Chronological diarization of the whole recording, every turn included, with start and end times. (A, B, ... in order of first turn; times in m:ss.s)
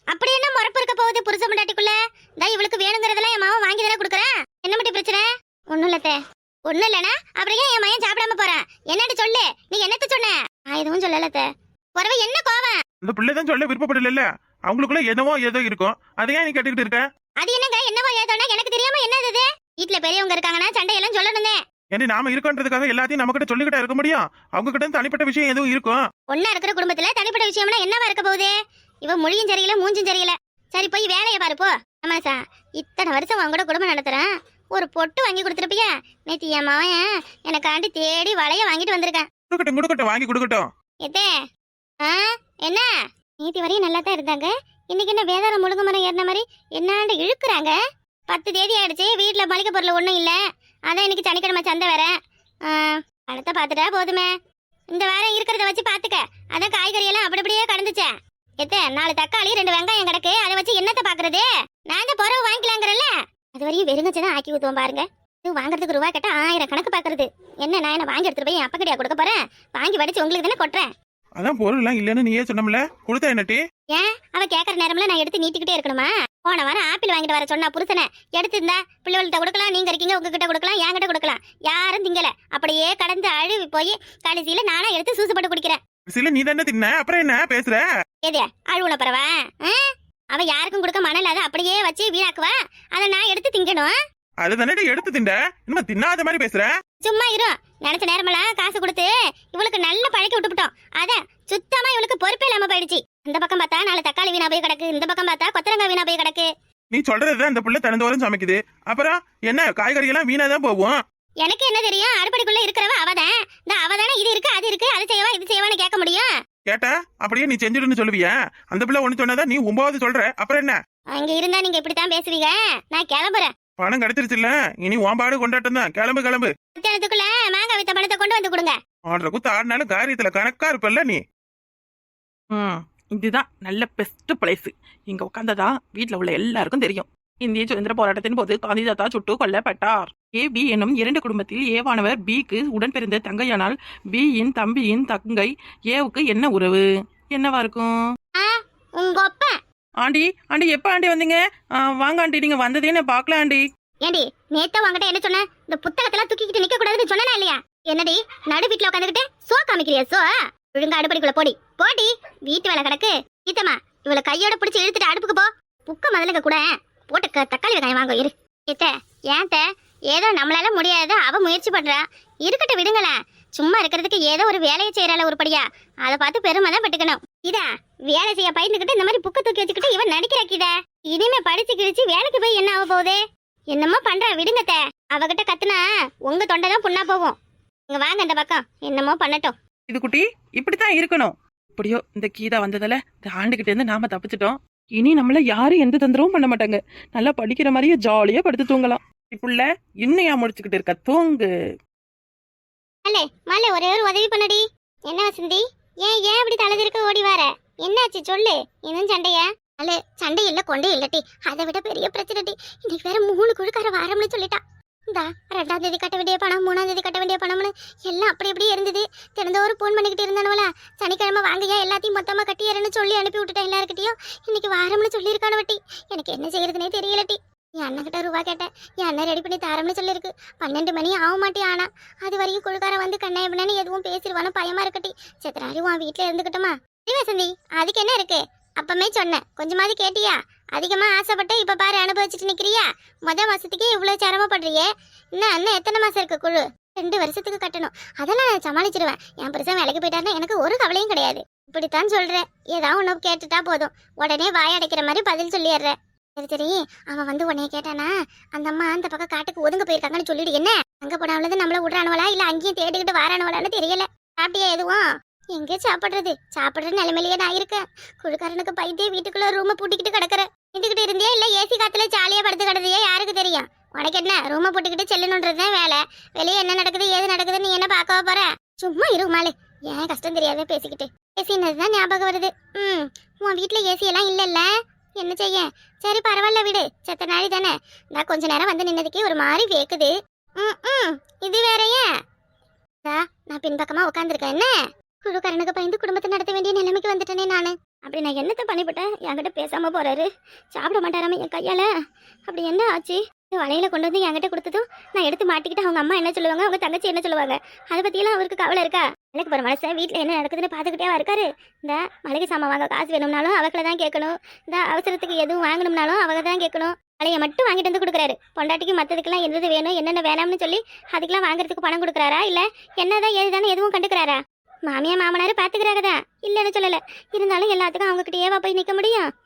0:00.1-0:12.8 A
0:13.0-0:17.1 B
0:17.4-0:21.6 A
0:21.9-0:26.0 B
0:26.3-0:28.5 A
0:29.0-0:39.2 A
0:39.5-0:40.7 B
0:41.0-0:41.3 A
0:42.0-0:42.9 A
0:43.4-0:47.8 A
0:48.3-0:50.4 A
0:50.9-0:52.1 A
0:52.6-0:54.3 A
0:54.9-1:10.9 A
1:11.4-1:13.6 B
1:13.9-1:25.8 A
1:26.1-1:27.8 B
1:28.2-1:34.0 A
1:34.4-1:36.7 B
1:37.0-1:46.5 A
1:46.9-1:51.0 B
1:51.4-1:56.3 A
1:56.7-2:00.8 B
2:01.1-2:03.5 A
2:03.8-2:06.5 B
2:06.8-2:08.8 A
2:09.1-2:11.2 B
2:12.6-2:27.9 C
2:24.9-2:25.2 B
2:28.4-2:29.6 A
2:30.0-2:33.6 C
2:30.1-2:31.3 B
2:32.2-2:33.5 B
2:34.0-3:07.4 A
3:07.9-3:09.5 A
3:09.9-3:21.5 C
3:10.7-3:11.1 B
3:12.8-3:13.2 B
3:18.3-3:18.9 B
3:20.1-3:21.5 B
3:23.0-4:52.1 A
4:53.0-5:01.9 A
5:02.5-5:29.3 A